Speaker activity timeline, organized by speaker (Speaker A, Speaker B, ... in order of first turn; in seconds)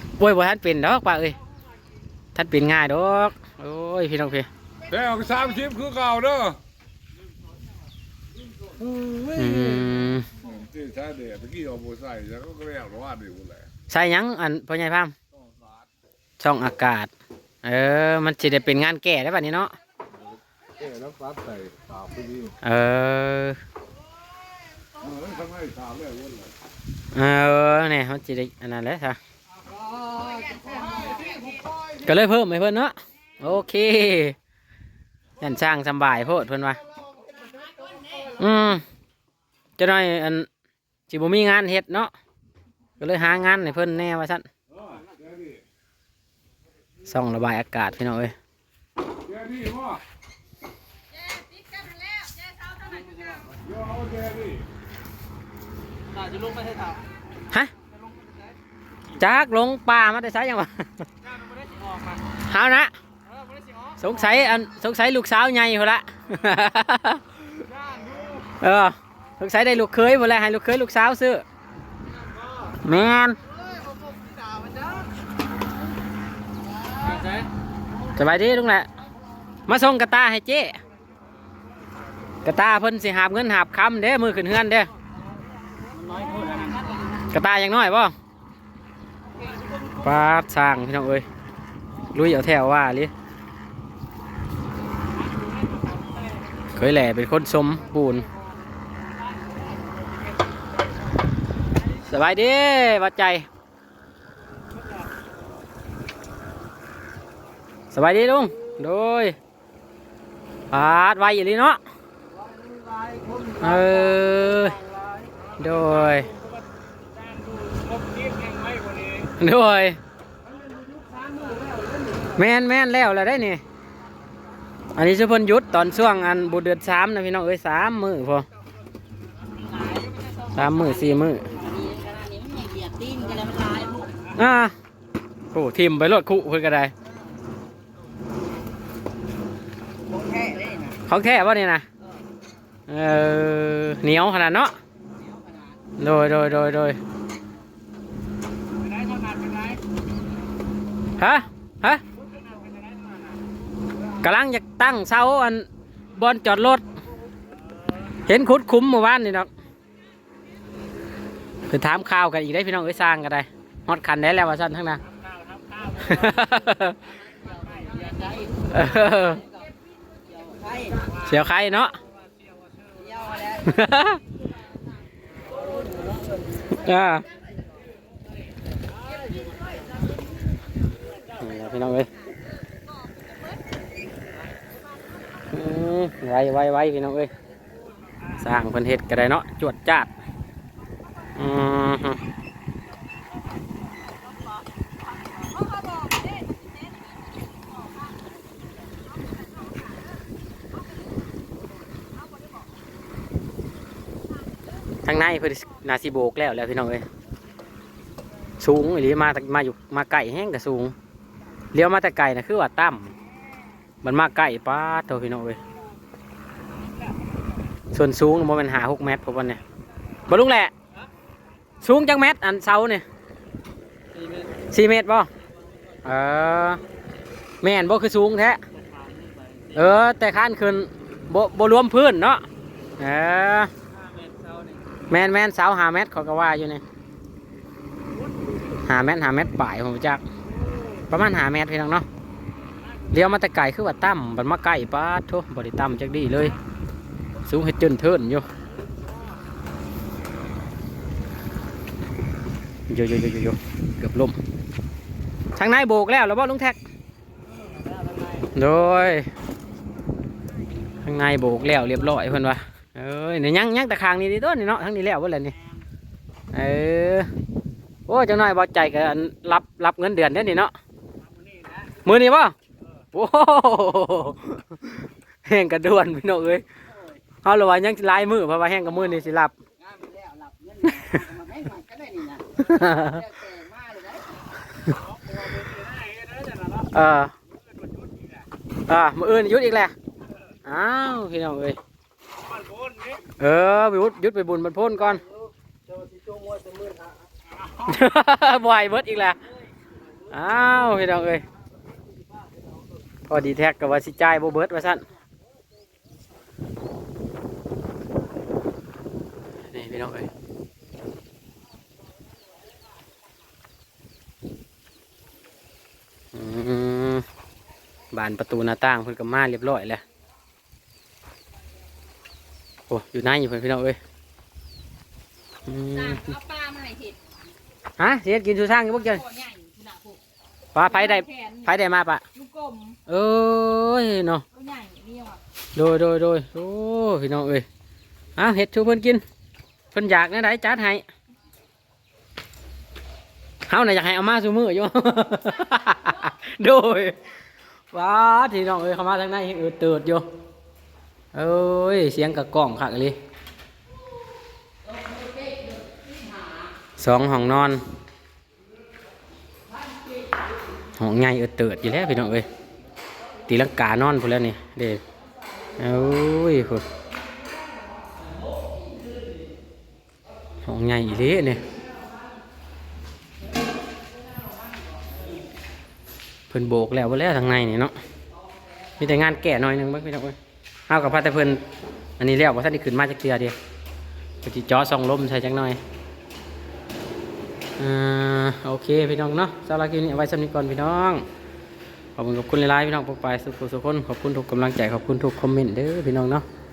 Speaker A: 0.2-1.4, 2.4-4.5, 9.2-10.3, 13.9-15.1, 16.4-17.1, 17.6-19.7, 22.6-23.6, 27.1-29.2, 32.0-34.4, 35.4-36.8, 38.4-38.8, 39.8-40.5, 41.1-42.1, 43.0-44.5, 47.0-48.3, 59.2-61.1, 62.4-62.9, 64.0-67.5, 68.6-71.4, 72.8-73.4, 78.2-78.9, 79.7-80.8, 82.4-84.9, 87.2-88.1, 89.9-91.2, 92.1-93.1, 96.7-98.3, 102.0-103.5, 107.9-109.4, 110.7-111.8, 113.6-114.8, 115.6-116.3, 119.3-120.0, 122.3-123.6, 125.0-128.5, 130.6-131.5, 134.3-134.7, 135.5-136.9, 141.1-141.8, 142.9-144.8, 146.0-147.0, 151.2-152.0, 154.2-156.8, 158.3-159.5, 161.7-165.0, 166.0-167.0, 168.7-169.4, 171.2-171.9, 173.5-174.2, 176.8-177.2, 181.4-182.1, 185.5-187.3, 188.3-190.1, 191.4-192.2, 205.0-207.1, 208.6-210.9, 211.7-213.1, 214.0-215.6, 217.9-219.6, 220.3-220.7, 221.8-223.0, 224.7-225.3, 226.0-226.8, 227.6-228.6, 229.7-232.4, 233.0-233.7, 235.1-236.8, 238.8-240.2, 241.1-242.1, 243.1-246.6, 247.5-248.5, 252.9-254.4, 255.6-256.8, 258.5-259.3, 261.0-265.5, 266.5-267.3, 268.1-270.7, 272.0-272.6, 273.1-276.6, 277.4-279.6, 280.9-281.2, 282.5-283.2, 286.7-287.3, 288.9-289.9, 290.7-291.8, 293.4-295.2, 297.8-299.4, 300.3-301.4, 303.3-305.0, 309.7-310.3, 316.3-317.2, 318.1-320.0, 322.9-324.0, 325.7-326.4, 328.0-329.2, 330.8-332.2, 333.1-334.4, 335.8-337.7, 338.4-339.2, 339.9-341.0, 343.7-347.2, 347.9-350.2, 351.3-353.2, 357.0-357.8, 361.0-362.5, 363.5-365.0, 365.8-366.9, 370.6-371.6, 376.5-377.9, 379.0-380.4, 380.9-381.6, 382.2-383.6, 384.4-385.8, 387.8-391.2, 392.2-396.4
Speaker B: 5.0-5.8, 29.8-31.6, 51.2-53.6, 56.1-57.0, 61.4-62.2, 77.1-77.4, 85.9-87.2, 89.3-89.8, 95.4-95.8, 112.9-113.4, 120.9-122.0, 129.5-134.3, 140.1-141.0, 145.3-145.7, 148.9-149.8, 165.6-165.8, 167.4-169.5, 170.3-171.2, 172.9-173.7, 194.1-198.3, 199.3-200.0, 202.2-202.6, 257.7-258.4, 271.4-271.9, 276.9-277.1, 279.8-284.4, 285.4-286.7, 325.8-327.2, 328.9-330.2, 330.8-331.8, 332.3-333.0, 334.5-335.4
Speaker C: 5.8-6.5, 11.0-13.3, 86.1-86.7, 95.3-96.2, 116.4-116.6, 117.2-119.3, 224.2-224.5, 228.8-229.8, 234.0-234.8